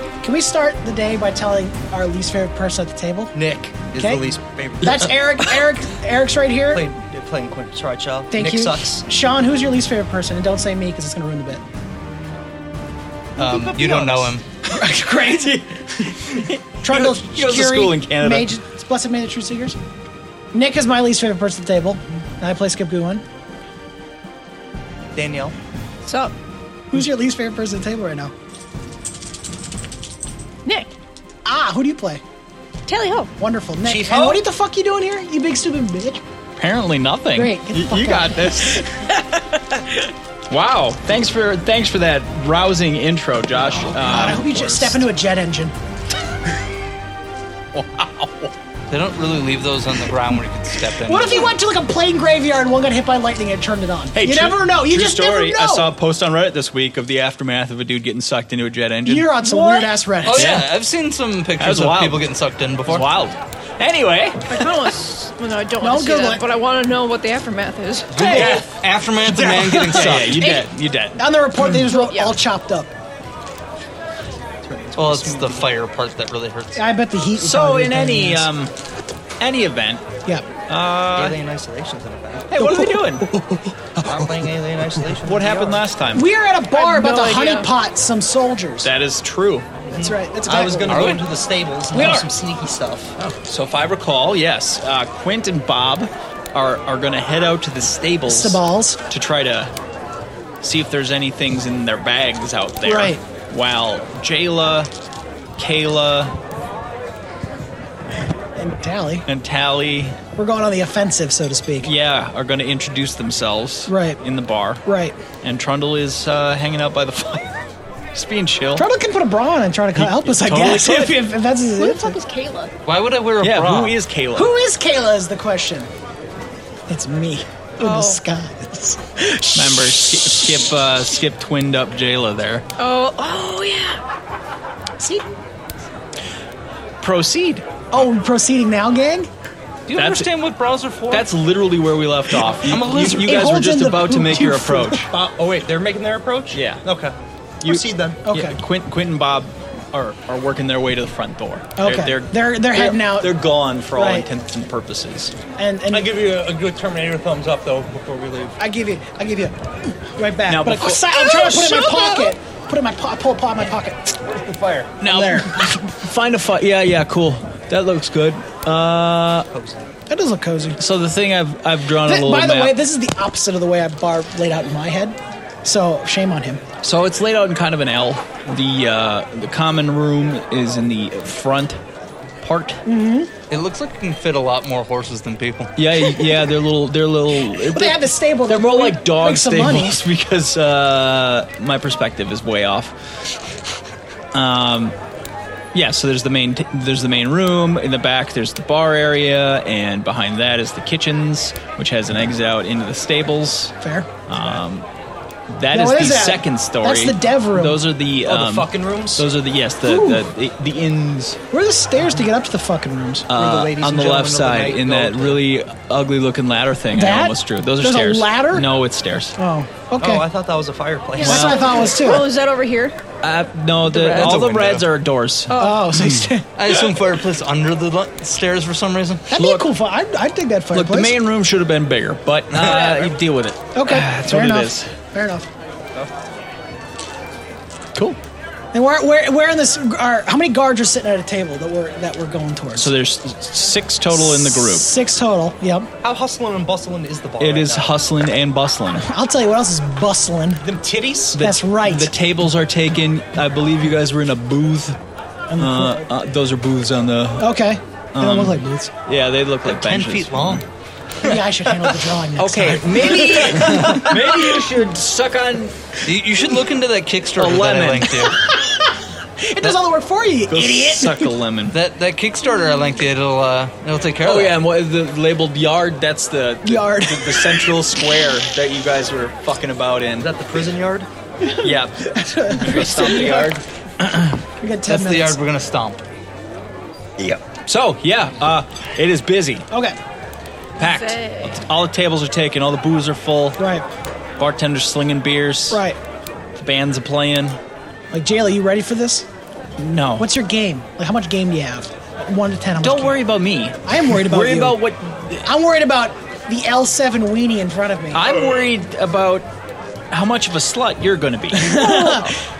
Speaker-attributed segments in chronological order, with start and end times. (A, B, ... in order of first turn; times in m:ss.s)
0:00.2-0:03.3 A
0:03.3-0:05.5 B
0:03.9-0:04.2 A
0:04.8-0:06.9 A
0:06.7-0:09.0 B
0:08.3-0:11.6 A
0:13.4-0:14.4 B
0:13.4-0:14.4 C
0:14.7-0:19.8 A
0:15.4-0:18.5 D
0:20.5-0:23.2 A
0:25.1-0:25.6 B
0:26.0-0:26.3 E
0:26.9-0:28.3 A
0:31.4-0:32.2 A
0:32.9-0:33.3 E
0:33.4-0:36.2 A
0:33.8-0:34.4 B
0:36.6-0:45.0 D
0:37.3-0:38.8 A
0:43.9-0:45.7 A
0:47.7-0:48.5 D
0:48.9-0:51.5 C
0:51.0-0:55.9 A
0:54.1-1:00.7 D
0:59.0-1:00.5 A
1:00.2-1:03.1 C
1:01.6-1:02.3 D
1:02.8-1:04.9 D
1:04.5-1:08.3 E
1:05.8-1:06.4 A
1:08.1-1:10.5 C
1:08.2-1:08.6 D
1:08.3-1:08.6 A
1:09.2-1:10.2 B
1:09.7-1:11.2 D
1:09.7-1:10.6 A
1:11.2-1:12.9 A
1:11.8-1:12.4 E
1:14.6-1:15.7 B
1:15.0-1:16.8 C
1:16.7-1:18.5 A
1:17.4-1:18.7 D
1:19.4-1:20.0 D
1:20.7-1:21.4 D
1:21.1-1:22.5 B
1:22.5-1:23.3 D
1:22.6-1:24.3 A
1:24.0-1:25.8 B
1:25.1-1:26.3 D
1:26.1-1:28.9 A
1:26.7-1:27.7 E
1:28.8-1:29.7 D
1:29.8-1:33.1 B
1:29.9-1:31.2 A
1:30.9-1:31.2 D
1:31.9-1:32.3 D
1:31.9-1:32.2 A
1:33.2-1:39.7 D
1:38.3-1:39.0 A
1:40.6-1:44.9 D
1:42.8-1:43.2 A
1:45.6-1:46.3 D
1:48.6-1:49.3 A
1:49.3-1:50.2 D
1:50.4-1:51.9 A
1:51.8-1:54.8 D
1:53.9-1:54.2 A
1:54.8-1:55.2 A
1:55.4-1:57.6 D
1:58.1-1:58.8 D
1:58.8-2:02.2 A
2:00.0-2:01.2 D
2:01.8-2:02.7 E
2:02.8-2:03.9 C
2:03.4-2:04.5 D
2:04.3-2:05.9 A
2:06.9-2:10.7 A
2:07.8-2:08.2 E
2:09.5-2:12.6 D
2:12.8-2:14.0 E
2:15.0-2:15.2 A
2:17.0-2:18.0 D
2:17.9-2:19.3 A
2:19.9-2:21.3 C
2:19.9-2:20.3 D
2:21.1-2:25.1 D
2:22.5-2:23.4 C
2:22.7-2:25.0 A
2:25.1-2:28.2 B
2:26.5-2:26.8 D
2:27.6-2:35.3 D
2:28.2-2:28.6 A
2:31.8-2:33.3 A
2:33.9-2:34.3 A
2:35.6-2:36.1 A
2:35.9-2:38.6 B
2:38.6-2:44.2 A
2:40.5-2:42.0 D
2:41.6-2:42.0 B
2:44.2-2:45.0 B
2:45.0-2:49.5 D
2:45.0-2:45.7 A
2:49.5-2:49.9 B
2:50.1-2:50.8 A
2:50.8-2:52.8 D
2:52.0-2:56.6 A
2:56.8-3:01.8 D
3:02.4-3:02.8 D
3:02.8-3:03.3 A
3:03.5-3:05.7 C
3:05.8-3:12.9 D
3:07.7-3:10.0 A
3:14.3-3:14.9 D
3:15.7-3:24.8 D
3:23.8-3:24.1 A
3:25.5-3:31.4 D
3:25.7-3:27.8 A
3:28.2-3:29.3 B
3:29.8-3:30.2 A
3:31.5-3:33.3 A
3:33.3-3:39.4 D
3:33.3-3:35.4 B
3:36.9-3:38.7 A
3:39.4-3:40.2 A
3:40.0-3:41.5 B
3:41.2-3:43.0 E
3:41.2-3:41.7 D
3:41.2-3:42.3 A
3:43.2-3:46.9 D
3:44.0-3:44.8 C
3:44.1-3:44.8 B
3:45.5-3:45.9 E
3:45.5-3:46.5 A
3:46.6-3:49.2 C
3:49.3-3:51.1 A
3:49.3-3:49.7 D
3:50.7-3:54.9 D
3:53.7-3:55.5 A
3:58.7-4:02.9 A
4:02.8-4:04.8 D
4:04.1-4:05.9 A
4:06.0-4:08.0 B
4:07.4-4:09.0 D
4:09.0-4:10.6 A
4:10.6-4:11.4 B
4:11.4-4:15.0 D
4:11.4-4:12.1 A
4:15.5-4:16.0 A
4:15.6-4:17.5 D
4:17.4-4:18.9 A
4:18.1-4:20.6 D
4:19.7-4:20.6 C
4:20.0-4:20.6 B
4:21.2-4:24.5 A
4:21.4-4:21.9 B
4:22.4-4:25.8 D
4:26.0-4:28.4 C
4:27.4-4:28.3 D
4:28.3-4:31.3 A
4:30.5-4:31.8 D
4:31.7-4:34.6 C
4:34.2-4:40.3 D
4:36.6-4:37.8 A
4:40.2-4:41.1 B
4:41.5-4:43.5 A
4:41.6-4:44.2 D
4:44.6-4:45.4 A
4:44.9-4:46.0 C
4:47.2-4:49.7 D
4:49.7-4:50.0 A
4:50.8-4:51.6 E
4:50.8-4:53.6 D
4:53.6-4:53.8 A
4:54.4-4:55.8 D
4:55.7-4:56.0 A
4:56.6-4:57.6 D
4:58.1-4:59.3 A
4:59.8-5:00.2 D
5:00.2-5:03.2 A
5:02.8-5:05.5 D
5:03.8-5:04.8 A
5:05.4-5:08.3 A
5:08.1-5:09.4 D
5:10.1-5:12.3 D
5:11.5-5:12.4 A